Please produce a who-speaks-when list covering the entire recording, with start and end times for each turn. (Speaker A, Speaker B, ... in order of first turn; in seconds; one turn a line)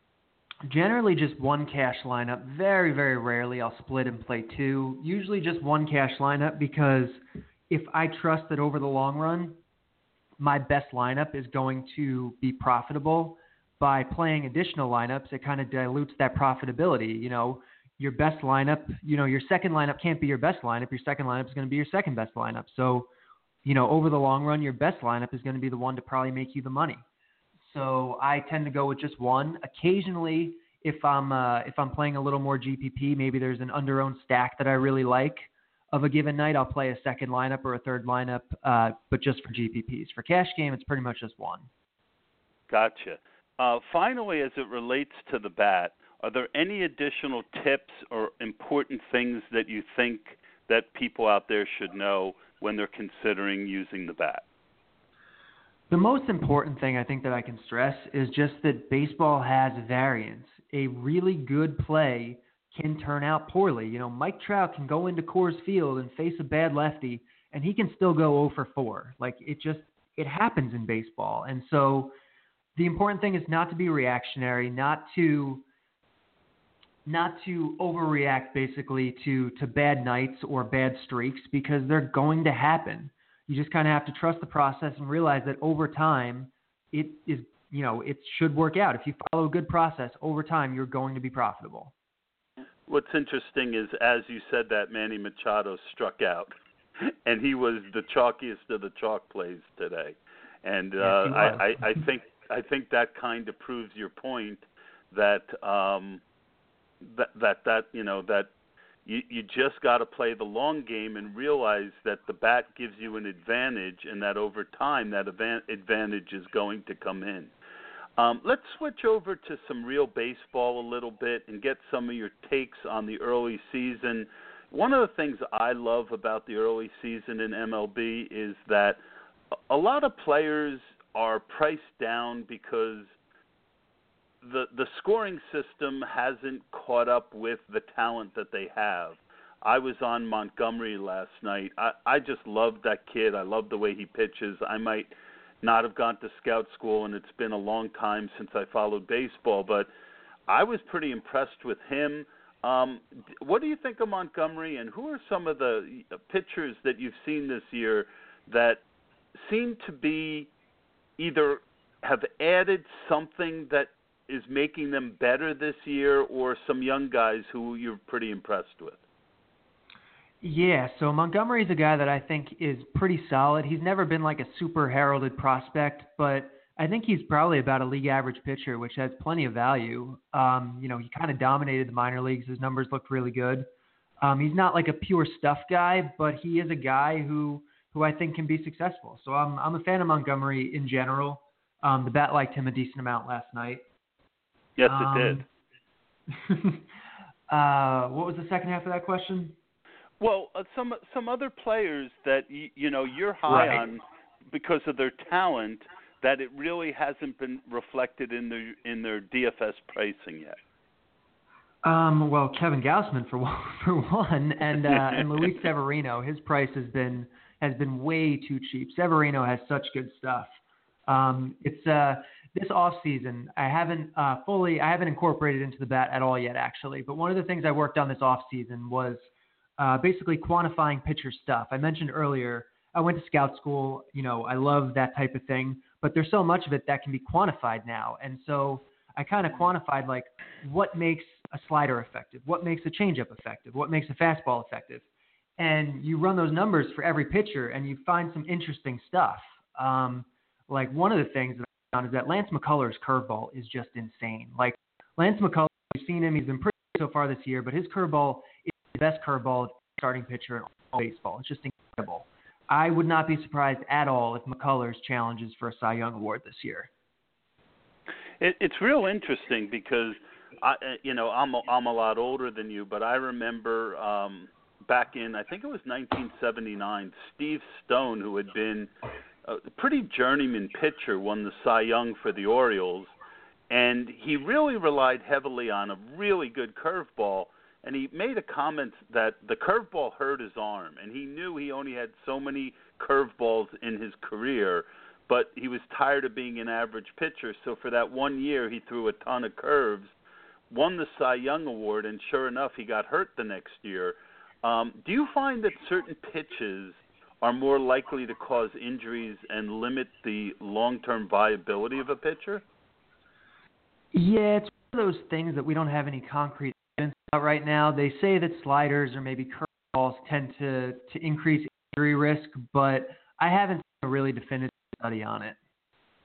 Speaker A: 0.6-9.6
Speaker A: 10.4-23.1
Speaker A: 23.6-27.0
Speaker A: 27.6-41.7
Speaker B: 42.7-54.4
Speaker A: 55.9-72.1
Speaker A: 72.8-75.6
Speaker A: 77.0-91.9
Speaker B: 92.9-106.2
Speaker A: 101.0-102.0
Speaker B: 107.0-108.5
Speaker B: 109.0-117.5
Speaker B: 118.2-129.0
Speaker B: 129.7-133.1
Speaker B: 134.4-149.9
Speaker B: 150.5-158.8
Speaker B: 159.3-160.5
Speaker B: 161.2-169.0
Speaker A: 170.4-183.7
Speaker A: 184.2-193.8
Speaker B: 194.8-195.4
Speaker A: 194.9-195.4
Speaker A: 196.3-196.8
Speaker A: 197.5-199.6
Speaker B: 200.2-210.6
Speaker A: 203.5-203.8
Speaker A: 211.8-220.6
Speaker B: 214.9-215.2
Speaker A: 221.1-245.0
Speaker A: 245.6-266.9
Speaker B: 268.4-278.9
Speaker B: 279.4-283.1
Speaker B: 283.7-300.1
Speaker B: 300.7-312.6
Speaker A: 314.1-325.6